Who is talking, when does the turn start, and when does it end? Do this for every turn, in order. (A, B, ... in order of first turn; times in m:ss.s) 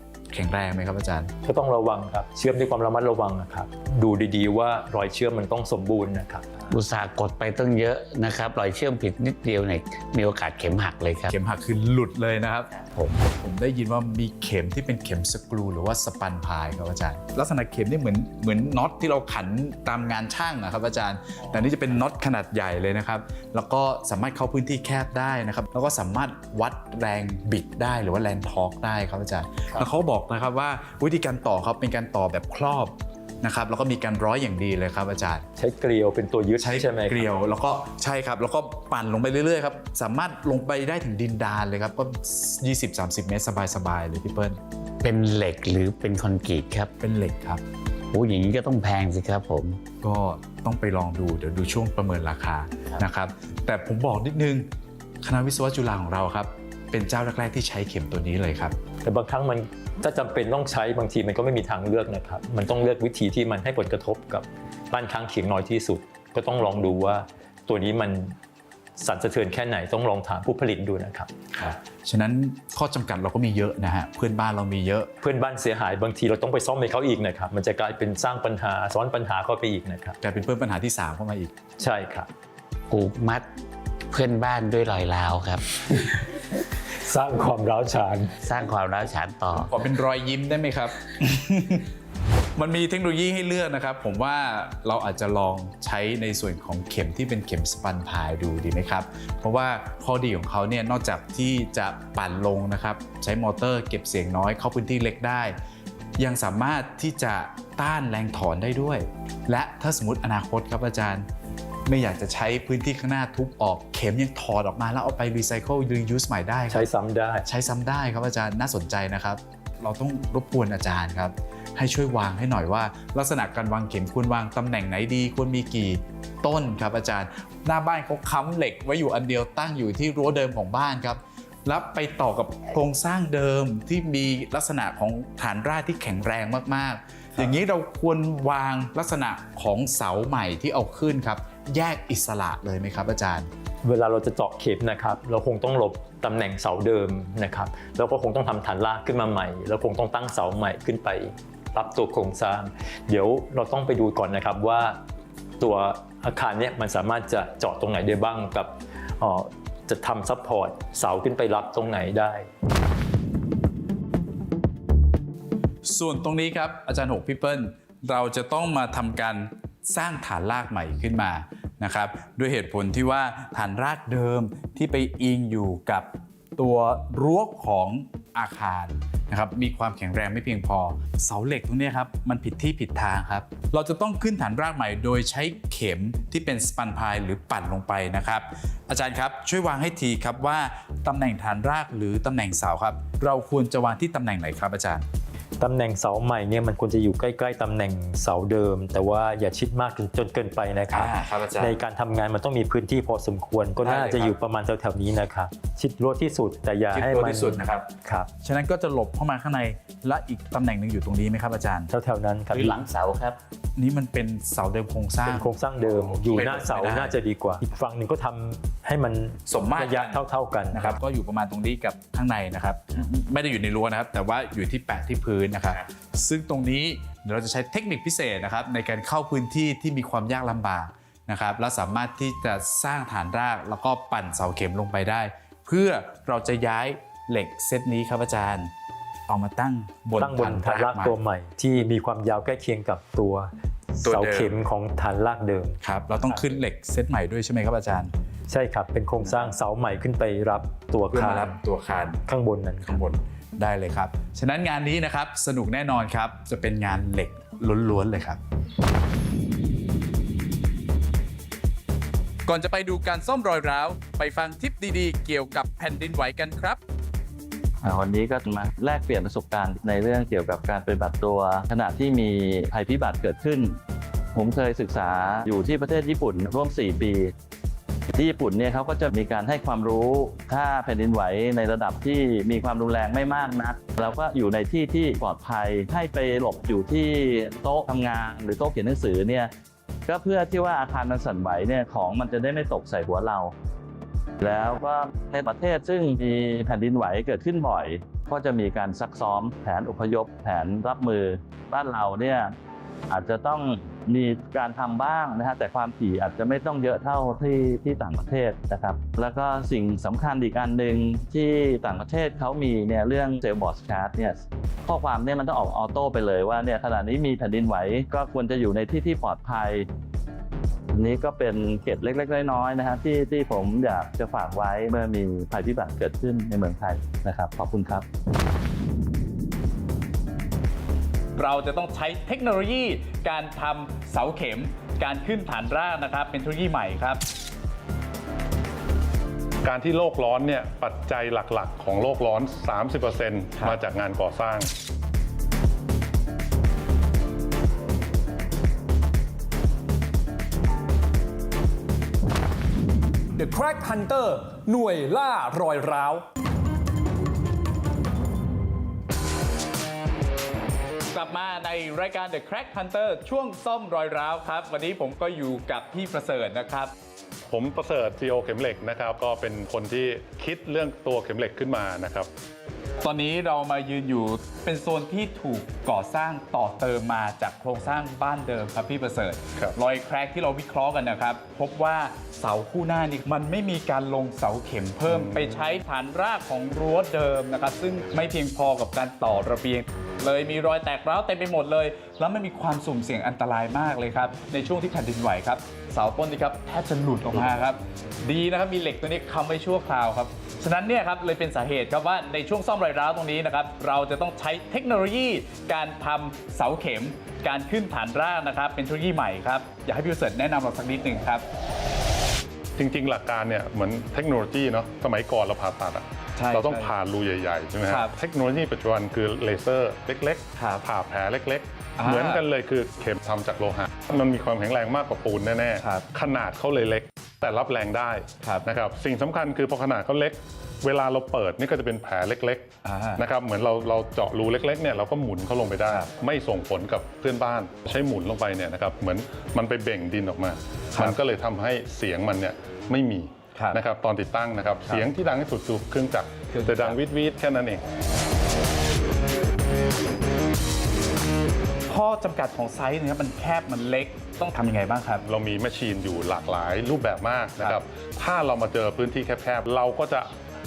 0:00.3-0:01.3 A
0:01.4-0:06.4 B
0:06.7-0:11.3 C
0:11.3-0:12.7 A
0:12.8-0:13.2 C
0:13.3-0:35.4 A
0:35.6-0:37.3 B
0:36.6-0:44.6 A
0:45.0-0:46.9 C
0:47.0-0:47.6 A
0:48.1-0:49.8 C
0:50.0-0:54.7 A
0:55.2-0:58.8 A
0:59.0-1:08.4 B
1:09.0-1:11.3 B
1:11.5-1:15.1 A
1:15.2-1:20.2 B
1:20.2-1:21.5 A
1:21.8-1:22.3 B
1:22.9-1:23.4 C
1:24.1-1:25.6 C
1:26.9-1:28.4 B
1:28.4-1:29.7 C
1:29.5-1:31.9 A
1:32.6-1:45.6 A
1:46.2-1:51.2 A
1:51.8-1:56.9 A
1:56.7-1:57.4 B
1:57.4-2:23.5 A
2:23.8-2:35.0 B
2:35.6-2:42.5 B
2:45.8-3:15.0 A
3:15.6-3:28.3 B
3:20.9-3:21.8 A
3:23.8-3:24.3 A
3:26.9-3:27.9 A
3:28.4-3:31.9 A
3:31.9-3:32.8 B
3:32.5-3:33.4 C
3:33.8-3:35.5 A
3:35.2-3:41.0 B
3:36.3-3:37.2 A
3:39.5-3:58.7 A
3:59.3-4:01.2 A
4:00.2-4:05.8 B
4:04.0-4:04.6 A
4:05.8-4:08.1 A
4:08.5-4:11.5 B
4:09.2-4:09.5 A
4:11.1-4:12.2 A
4:12.3-4:13.0 B
4:12.8-4:18.4 A
4:22.4-4:26.8 A
4:27.8-4:33.8 D
4:34.3-4:37.3 D
4:38.1-4:49.5 D
4:50.1-4:53.5 D
4:54.4-5:02.5 D
5:03.1-5:19.9 D
5:20.9-5:28.0 D
5:31.3-5:37.2 A
5:39.6-5:44.7 E
5:53.4-5:56.3 F
6:01.1-6:06.9 A
6:07.5-6:12.3 E
6:13.0-6:51.4 A
6:25.1-6:25.4 E
6:52.8-7:27.8 E
6:56.4-6:56.9 A
6:57.8-6:58.1 A
7:00.6-7:00.8 A
7:02.0-7:02.4 A
7:05.8-7:06.1 A
7:12.8-7:13.2 A
7:23.5-7:23.8 A
7:26.5-7:27.0 A
7:31.9-7:35.2 A
7:35.2-7:40.3 E